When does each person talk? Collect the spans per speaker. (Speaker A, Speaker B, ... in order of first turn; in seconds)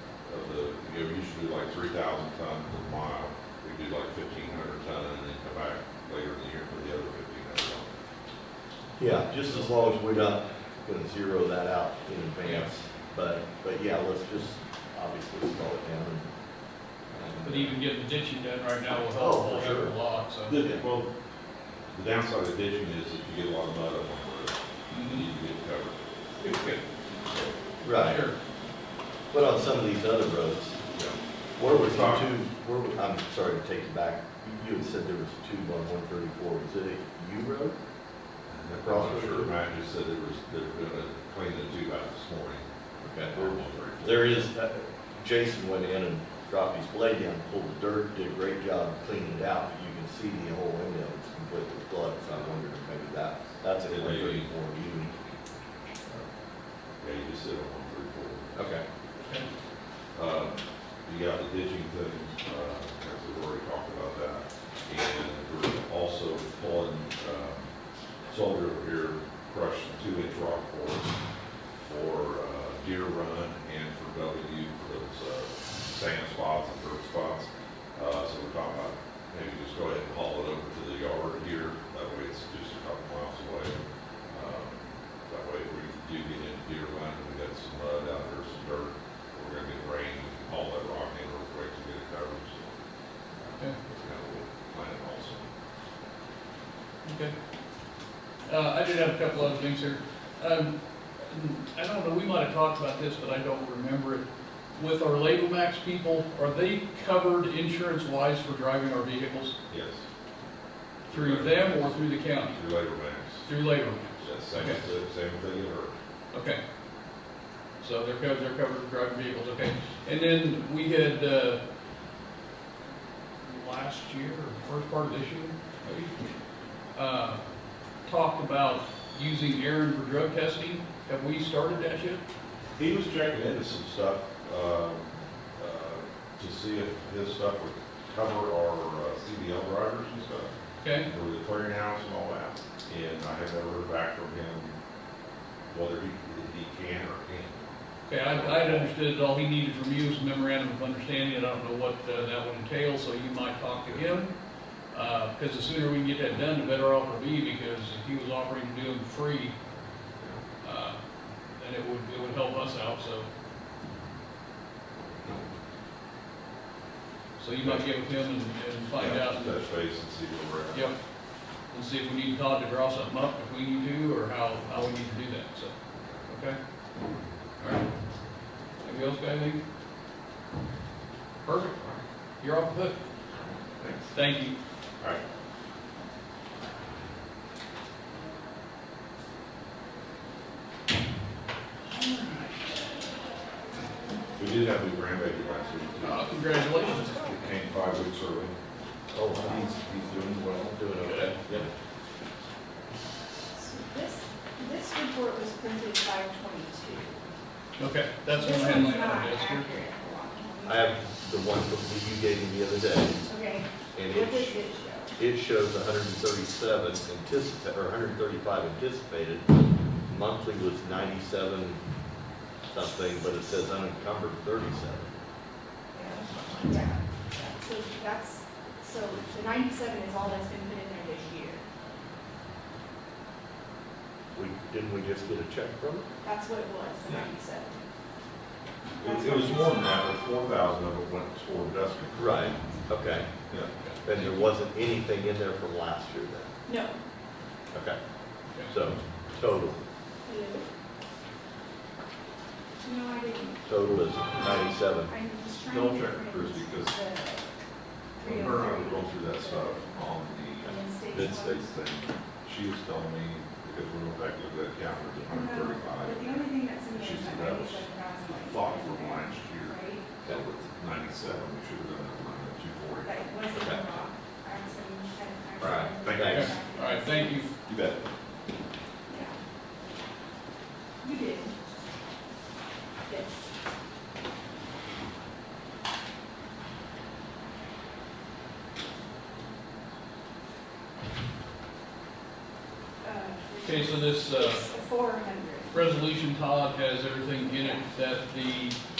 Speaker A: 0.2-8.0, 20.5-21.1, 21.9-26.1, 27.3-27.5, 30.9-32.3, 38.5-42.7, 43.3-44.5, 53.9-54.5, 57.0-58.7, 60.1-67.7, 68.3-71.2, 71.7-92.8, 93.4-95.5, 109.7-110.1, 111.1-113.5, 114.2-116.0, 132.8-144.8, 145.7-147.7, 148.3-148.9, 160.2-160.4, 165.0-165.5, 168.9-170.9, 181.7-182.0, 183.3-184.1, 194.4-198.6, 199.3-201.7, 239.0-242.6, 255.7-257.0, 258.2-273.2, 275.6-276.6, 277.7-278.1
Speaker B: 9.0-16.3, 17.1-17.8, 19.1-19.9, 20.6-20.8, 27.8-28.2, 29.3-30.8, 31.6-37.8, 38.8-39.5, 43.0-55.2, 58.5-58.8, 199.1-201.7, 210.7-213.2, 213.9-214.6, 215.2-219.5, 220.1-221.8, 222.7-225.1, 234.3-236.1, 242.2-243.3, 244.1-246.5, 247.7-248.0, 248.7-249.8, 253.7-255.2, 273.6-273.8, 275.6-276.5
Speaker C: 17.4-20.6, 24.9-25.3, 26.4-26.8, 28.0-28.4, 59.2-59.5, 97.0-97.3, 98.5-104.2, 104.8-109.5, 111.1-112.6, 113.5-114.8, 116.3-116.6, 117.8-121.6, 123.4-126.3, 126.9-127.4, 128.1-132.2, 140.8-141.1, 148.1-154.3, 154.9-159.5, 160.6-161.0, 161.6-163.3, 167.4-169.7, 171.7-175.7, 176.3-176.6, 177.6-177.9, 178.8-179.6, 181.4-181.8, 182.4-183.0, 184.1-184.6, 196.0-197.2, 201.0-201.3, 207.8-209.7, 243.8-244.4, 276.3-277.5, 293.6-294.7, 295.7-298.8
Speaker D: 203.5-207.2, 208.3-211.0, 213.3-215.2, 225.9-231.6, 236.2-237.9, 238.9-240.0, 246.7-247.0, 250.2-250.7, 252.8-253.7, 255.1-257.5, 258.2-260.1, 260.6-261.7, 265.3-270.1, 273.0-277.5, 279.1-279.4, 281.0-281.6, 283.1-283.5, 293.0-295.8, 297.5-297.9